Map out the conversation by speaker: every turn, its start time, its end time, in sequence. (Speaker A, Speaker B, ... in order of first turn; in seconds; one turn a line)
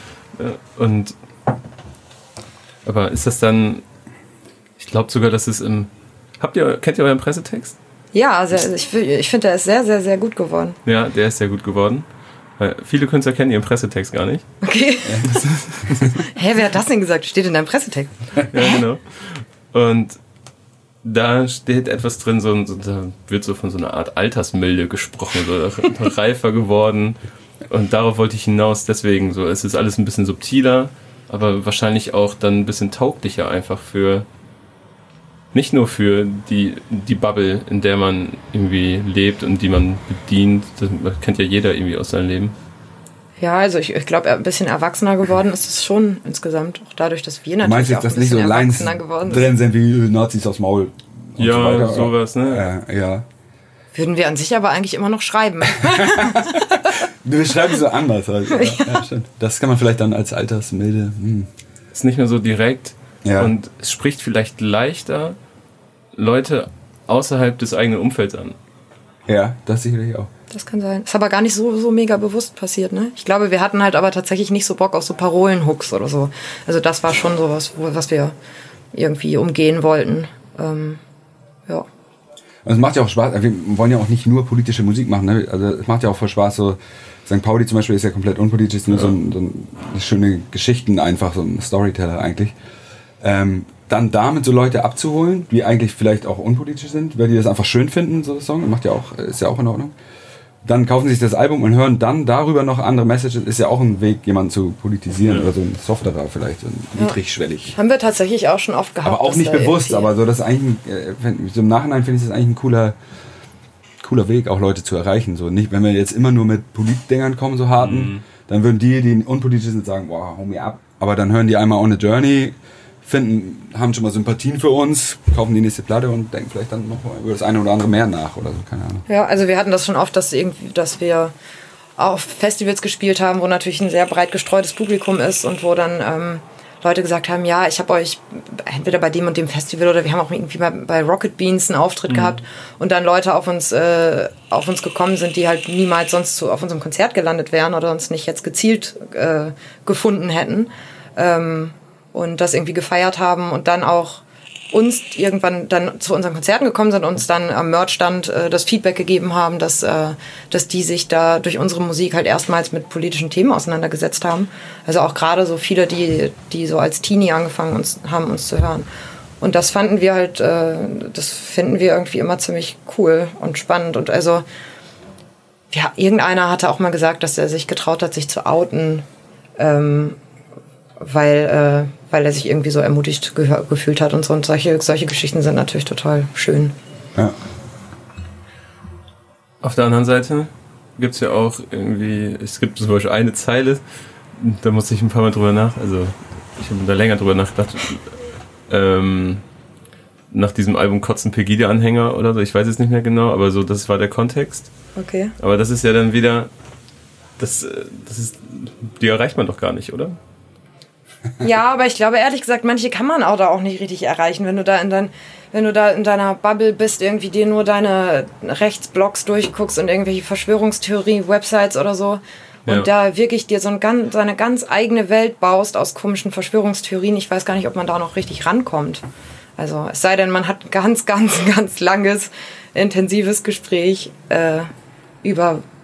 Speaker A: 0.4-1.2
Speaker A: 2.9-3.8
Speaker A: 4.8-5.9
Speaker A: 6.4-7.8
Speaker B: 8.1-10.8
Speaker A: 10.9-12.1
Speaker A: 12.6-14.5
Speaker B: 14.6-15.4
Speaker C: 15.1-15.4
Speaker A: 15.3-15.8
Speaker B: 16.0-18.8
Speaker A: 18.5-20.2
Speaker A: 21.0-34.3
Speaker A: 35.5-42.5
Speaker B: 43.4-49.5
Speaker C: 47.6-53.3
Speaker A: 51.4-52.7
Speaker B: 53.9-57.0
Speaker C: 55.8-61.5
Speaker B: 58.5-59.0
Speaker A: 61.9-65.4
Speaker C: 63.2-63.5
Speaker A: 66.2-68.6
Speaker C: 69.3-70.3
Speaker B: 70.5-78.3
Speaker B: 78.9-81.0
Speaker C: 82.7-92.5
Speaker C: 93.2-99.9
Speaker C: 100.6-107.8
Speaker B: 107.8-110.1
Speaker C: 109.0-113.0
Speaker C: 114.0-129.0
Speaker A: 117.8-118.2
Speaker B: 129.1-131.3
Speaker B: 132.0-168.9
Speaker A: 142.1-142.4
Speaker B: 169.4-174.4
Speaker B: 175.7-179.1
Speaker B: 179.6-180.2
Speaker B: 181.0-186.8
Speaker A: 189.6-193.8
Speaker A: 194.3-199.4
Speaker A: 200.3-204.7
Speaker B: 205.0-205.3
Speaker A: 205.4-206.5
Speaker A: 207.4-210.2
Speaker B: 211.4-229.0
Speaker B: 229.6-234.7
Speaker B: 235.2-235.6